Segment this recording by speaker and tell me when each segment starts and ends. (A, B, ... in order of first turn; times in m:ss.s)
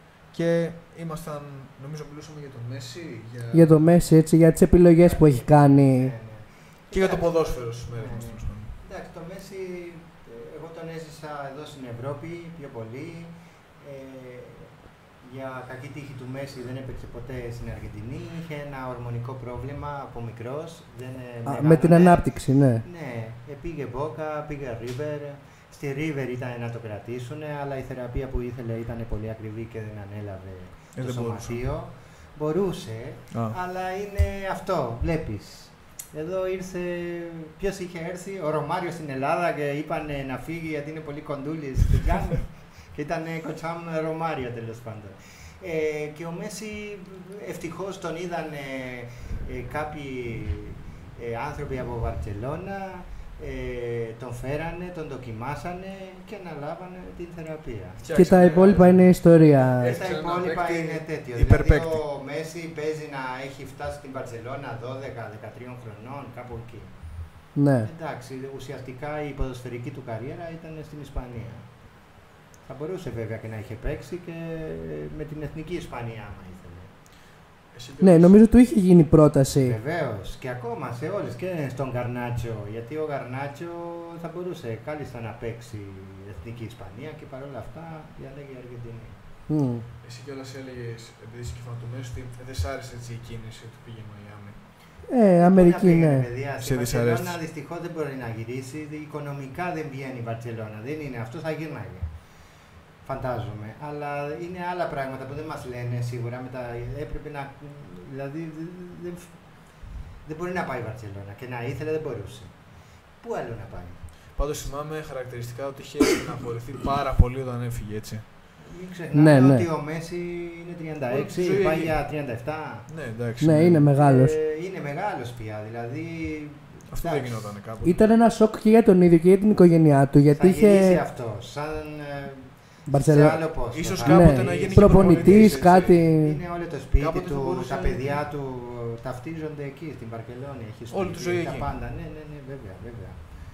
0:00.3-0:03.8 A
0:03.5-0:06.1 B
0:05.0-0:58.6 C
0:06.9-0:08.7 A
0:21.4-0:22.8 B
0:30.9-0:31.6 A
0:33.3-0:33.6 A
0:58.0-0:59.2 A
0:58.1-1:00.0 B
0:59.8-1:02.0 A
0:59.8-1:06.9 C
1:07.6-1:07.9 B
1:07.8-1:11.7 C
1:12.6-1:16.9 C
1:17.7-1:18.4 A
1:18.0-1:19.8 B
1:19.6-1:29.2 C
1:29.5-1:29.8 B
1:30.0-1:34.6 A
1:35.1-1:36.3 B
1:35.4-1:42.1 C
1:36.6-1:37.4 A
1:43.0-1:49.3 C
1:50.2-1:52.5 C
1:53.2-1:54.0 C
1:54.4-1:58.2 A
1:58.6-2:02.8 C
1:59.1-1:59.6 B
2:01.1-2:02.0 A
2:02.9-2:03.8 A
2:03.4-2:04.3 B
2:03.9-2:07.5 C
2:06.9-2:08.0 A
2:07.8-2:11.0 B
2:10.3-2:23.2 C
2:12.9-2:13.4 B
2:13.7-2:16.0 A
2:14.0-2:16.4 B
2:17.0-2:18.2 A
2:20.9-2:21.7 A